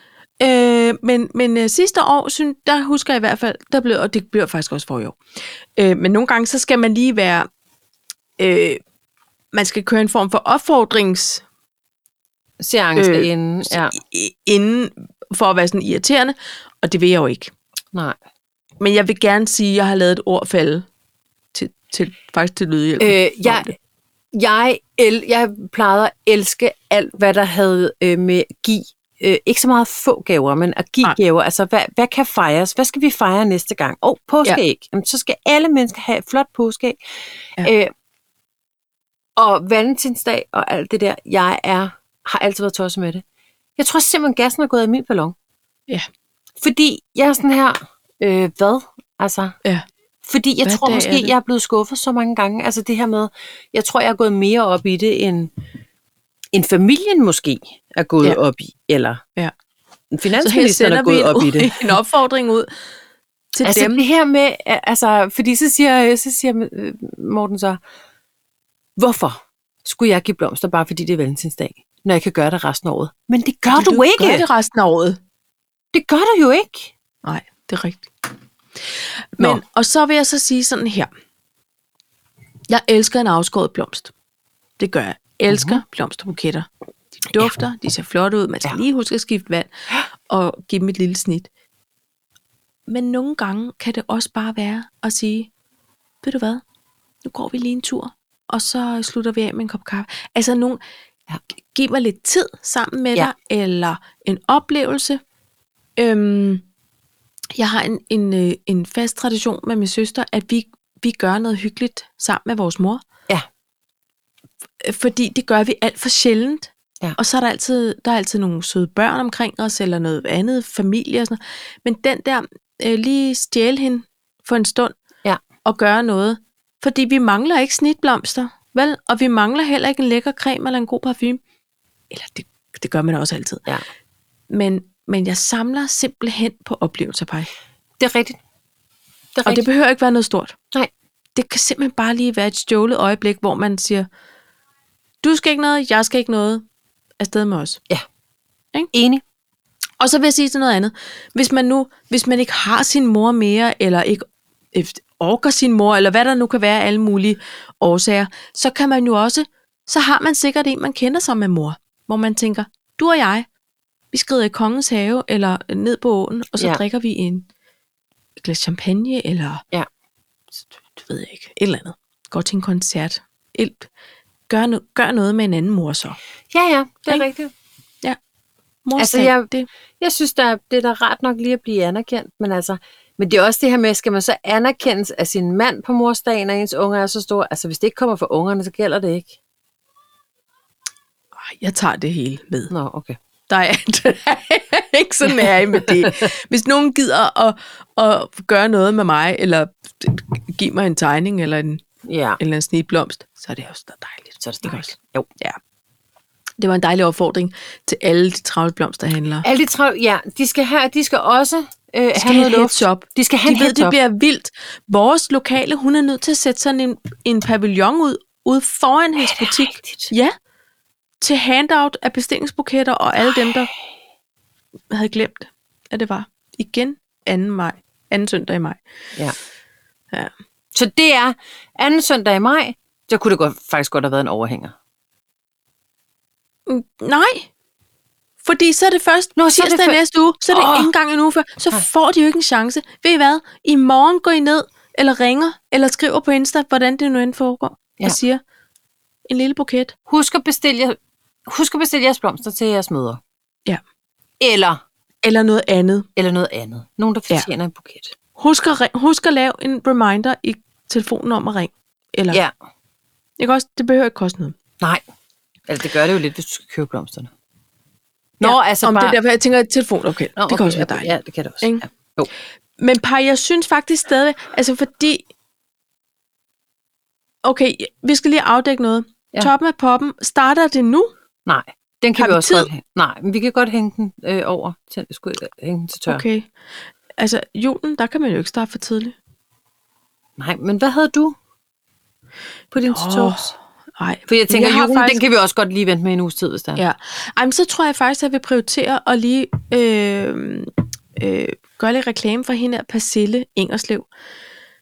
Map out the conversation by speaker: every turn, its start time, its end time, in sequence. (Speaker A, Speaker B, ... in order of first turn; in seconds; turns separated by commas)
Speaker A: 0.4-5.2, Speaker A: 5.8-7.5, Speaker A: 8.4-8.8, Speaker A: 9.5-11.4, Speaker B: 12.6-13.9, Speaker A: 12.9-17.5, Speaker B: 17.9-18.2, Speaker A: 18.8-20.9, Speaker A: 21.5-23.7, Speaker B: 23.0-23.7, Speaker B: 24.3-37.0, Speaker B: 37.6-37.9, Speaker B: 39.4-43.2, Speaker B: 43.8-45.3, Speaker B: 46.6-49.5, Speaker B: 50.2-55.5, Speaker A: 50.6-51.3, Speaker B: 56.5-59.2, Speaker B: 60.1-62.0, Speaker A: 60.4-62.7, Speaker A: 63.5-64.0, Speaker B: 63.6-67.8, Speaker B: 69.0-74.5, Speaker A: 73.7-75.2, Speaker B: 75.9-76.9, Speaker A: 77.2-78.1, Speaker A: 79.4-81.1, Speaker A: 82.7-84.1, Speaker A: 84.8-86.7, Speaker B: 85.5-85.8, Speaker A: 87.2-91.5, Speaker A: 92.9-95.5, Speaker A: 96.2-96.6, Speaker A: 97.2-100.8, Speaker A: 101.5-105.2, Speaker A: 106.0-106.6, Speaker A: 107.5-113.0, Speaker A: 114.8-125.0, Speaker A: 125.6-131.4, Speaker A: 132.1-133.7, Speaker A: 134.5-137.5, Speaker B: 138.0-138.4, Speaker B: 139.3-139.6, Speaker A: 139.4-140.6, Speaker A: 141.3-144.1, Speaker A: 145.2-146.6, Speaker A: 147.2-147.8, Speaker B: 148.9-149.2, Speaker A: 150.0-163.5, Speaker A: 164.1-167.4, Speaker A: 168.4-169.6, Speaker A: 170.6-173.9, Speaker A: 174.5-176.2, Speaker B: 176.5-177.5, Speaker A: 178.8-179.7, Speaker B: 179.0-189.3, Speaker A: 191.4-192.7, Speaker B: 192.7-193.2, Speaker A: 193.5-201.8, Speaker B: 195.2-196.2, Speaker B: 202.0-202.4, Speaker A: 202.4-205.6, Speaker B: 204.4-205.3, Speaker A: 206.6-209.4, Speaker B: 209.4-213.9, Speaker A: 212.1-220.3, Speaker B: 219.2-220.1, Speaker A: 221.2-223.7, Speaker A: 224.9-228.8, Speaker B: 230.7-234.7, Speaker A: 236.7-237.5, Speaker A: 238.4-248.4, Speaker B: 239.4-240.9, Speaker A: 249.3-249.9, Speaker B: 250.1-253.2, Speaker B: 254.4-254.8, Speaker A: 255.2-256.1, Speaker B: 256.1-258.1, Speaker A: 258.4-262.4, Speaker A: 263.4-264.6, Speaker B: 265.7-267.3, Speaker B: 268.4-269.2, Speaker A: 268.4-271.8, Speaker B: 270.4-272.3, Speaker A: 272.8-275.2, Speaker A: 277.4-281.1, Speaker B: 281.4-286.2, Speaker A: 282.1-282.7, Speaker A: 286.1-286.5, Speaker A: 287.2-289.1, Speaker B: 290.4-291.4, Speaker B: 292.7-293.5, Speaker A: 292.8-295.2, Speaker B: 294.3-296.8, Speaker A: 296.8-304.1